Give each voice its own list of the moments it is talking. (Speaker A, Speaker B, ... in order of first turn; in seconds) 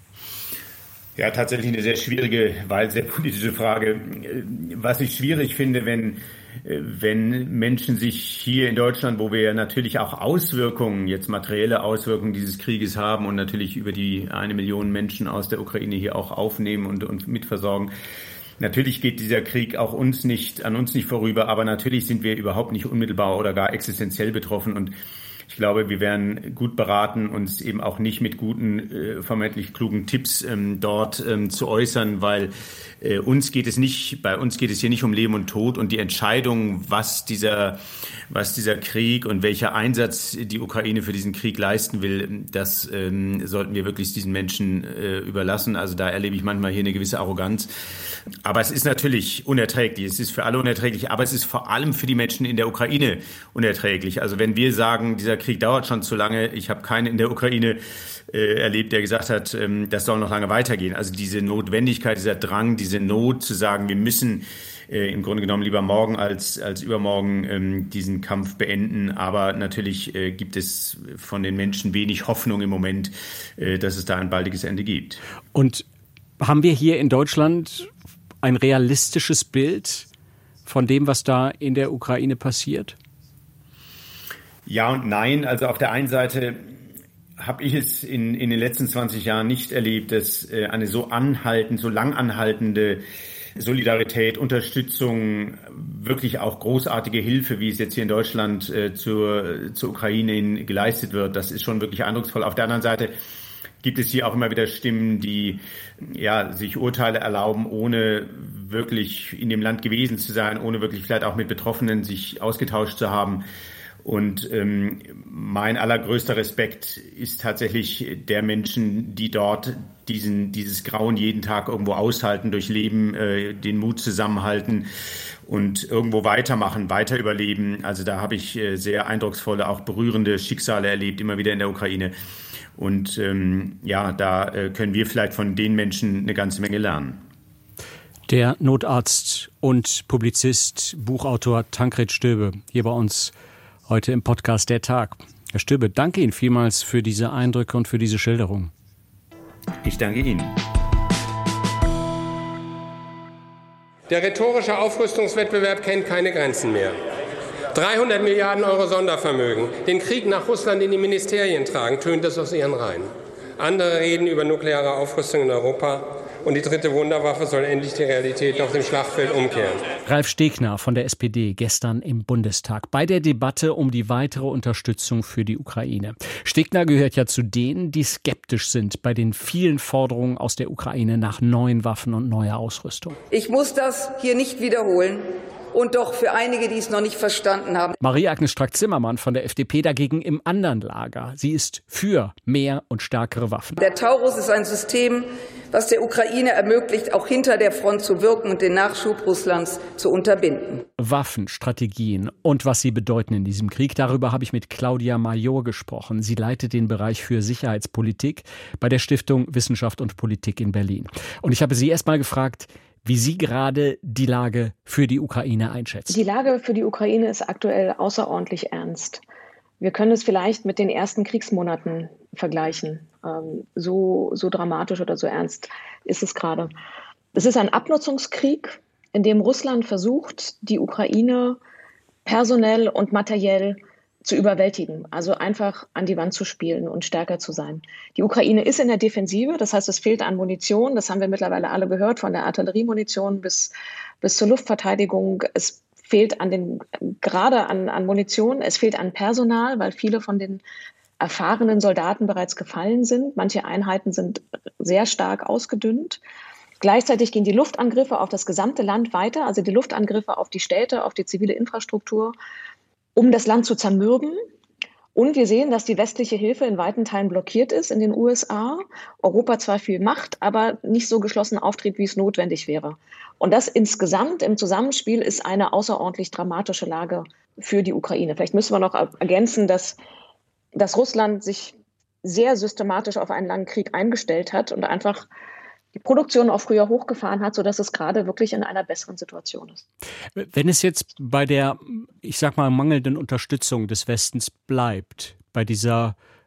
Speaker A: 1.1-17.9, 18.6-24.9, 25.5-47.7, 48.4-75.2, 84.7-86.7, 87.4-93.0, 93.5-103.1, 103.8-113.4, 114.0-124.9, 125.5-132.1, 132.8-137.2, 149.8-150.6
Speaker B: 75.5-75.8, 76.4-77.9, 78.4-80.1, 80.7-82.9, 138.3-143.3, 143.9-148.7, 170.0-183.2, 188.0-193.8, 201.0-216.2, 290.4-296.1
Speaker C: 154.1-157.0, 157.7-169.9
Speaker D: 183.3-187.9, 193.8-200.8
Speaker E: 216.1-219.2, 219.8-226.7, 227.3-231.6, 232.2-250.6, 251.2-256.2, 256.8-262.3, 263.1-264.4, 265.1-280.0, 280.8-285.3, 285.9-289.8